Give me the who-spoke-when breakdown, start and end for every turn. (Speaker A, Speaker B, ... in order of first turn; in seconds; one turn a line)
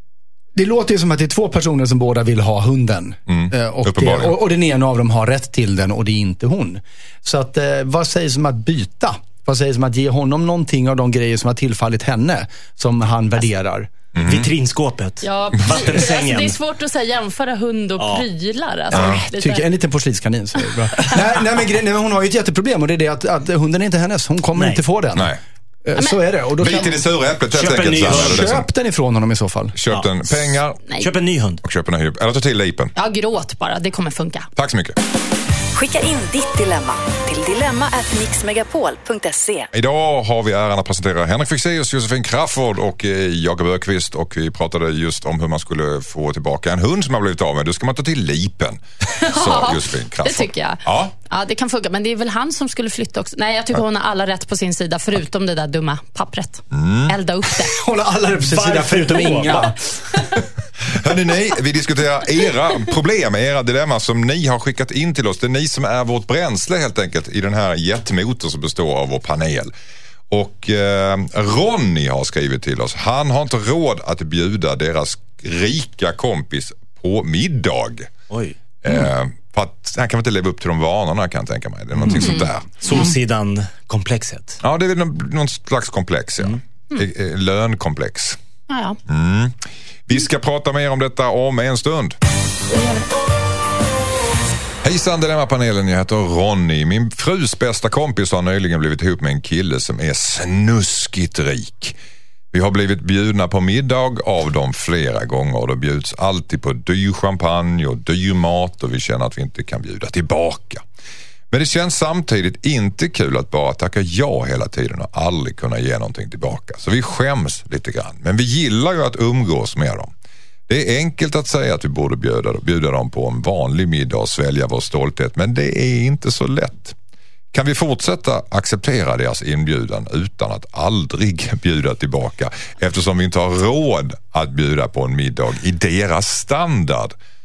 Speaker A: 0.5-13.9
Speaker B: 3.3-4.4
Speaker B: 14.1-14.5
Speaker C: 14.2-16.6
Speaker D: 15.2-19.7
Speaker C: 18.0-18.2
Speaker B: 18.9-19.2
Speaker A: 18.9-27.0
Speaker D: 20.9-21.2
Speaker C: 24.5-24.8
Speaker B: 26.6-28.7
Speaker C: 27.5-28.5
Speaker A: 28.1-29.8
Speaker B: 29.7-30.8
Speaker C: 31.0-31.6
Speaker B: 31.6-32.9
Speaker D: 32.9-34.5
Speaker B: 34.5-35.0
Speaker E: 35.7-39.7
Speaker B: 39.7-51.1
Speaker D: 49.2-57.8
Speaker B: 56.7-57.1
Speaker A: 57.6-60.4
Speaker C: 58.4-59.8
Speaker B: 60.8-69.7
Speaker B: 70.3-78.1
Speaker C: 78.3-78.5
Speaker B: 78.8-83.0
Speaker C: 82.0-84.6
Speaker D: 82.1-83.1
Speaker B: 84.6-88.4
Speaker D: 88.7-89.0
Speaker B: 89.1-92.2
Speaker D: 92.7-93.0
Speaker B: 94.8-102.0
Speaker B: 102.5-110.8
Speaker B: 111.5-120.1
Speaker B: 120.7-127.0
Speaker B: 127.5-137.1